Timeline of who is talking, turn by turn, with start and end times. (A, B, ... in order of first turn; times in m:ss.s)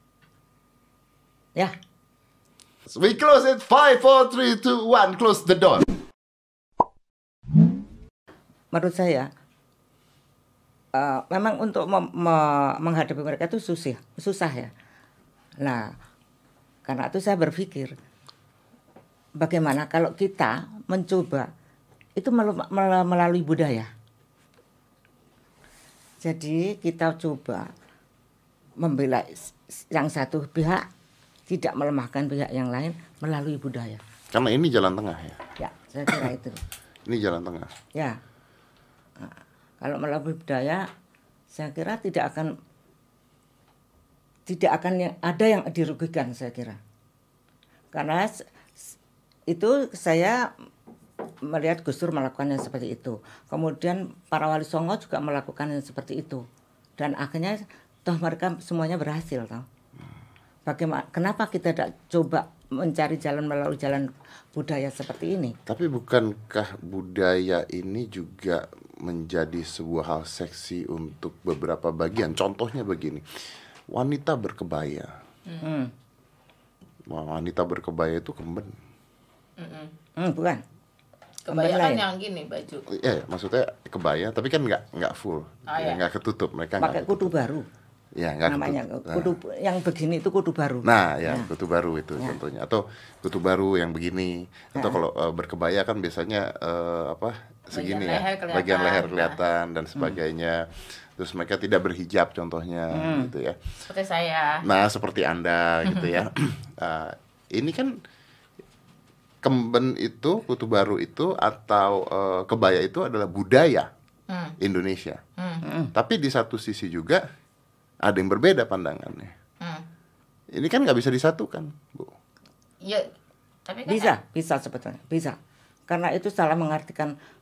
0:02.9-0:05.9 A
0:08.7-0:09.3 B
0:10.9-0:14.7 B
0:15.6-0:15.9 B
0:16.8-0:17.9 B
0:19.4-0:21.5 B
0:22.2-0:23.9 B
0:26.2-0:27.7 B
0:28.8-0:30.8 B
0:31.5-0:34.0 B
0:34.3-0:35.4 A
0:35.6-0:36.6 B
0:37.1-0:37.7 A
0:39.2-0:40.8 B
0:41.5-0:42.5 B
0:44.5-0:46.8 B
0:47.9-0:48.9 B
0:49.5-0:50.5 B
0:51.5-0:56.4 B
0:57.0-0:59.6 B
1:00.6-1:05.6 B
1:05.7-1:13.2 A
1:13.9-1:15.1 A
1:15.4-1:15.7 C
1:15.6-1:15.9 B
1:17.1-1:18.7 A
1:19.6-1:19.9 C
1:20.2-1:20.6 B
1:21.4-1:22.8 C
1:21.5-1:22.0 B
1:22.9-1:27.3 A
1:25.7-1:26.0 C
1:26.8-1:27.6 B
1:28.2-1:29.3 A
1:28.5-1:31.5 B
1:30.8-1:40.6 A
1:37.7-1:39.4 C
1:41.2-1:43.6 A
1:42.9-1:43.3 B
1:43.9-1:44.6 C
1:44.6-1:48.0 A
1:49.4-1:53.9 A
1:54.3-1:54.5 C
1:54.6-1:55.2 A
1:55.4-1:55.7 C
1:55.6-1:55.9 B
1:55.9-1:57.2 A
1:58.0-1:59.3 A
2:00.5-2:02.1 A
2:03.7-2:04.1 C
2:03.9-2:05.4 B
2:05.9-2:07.1 B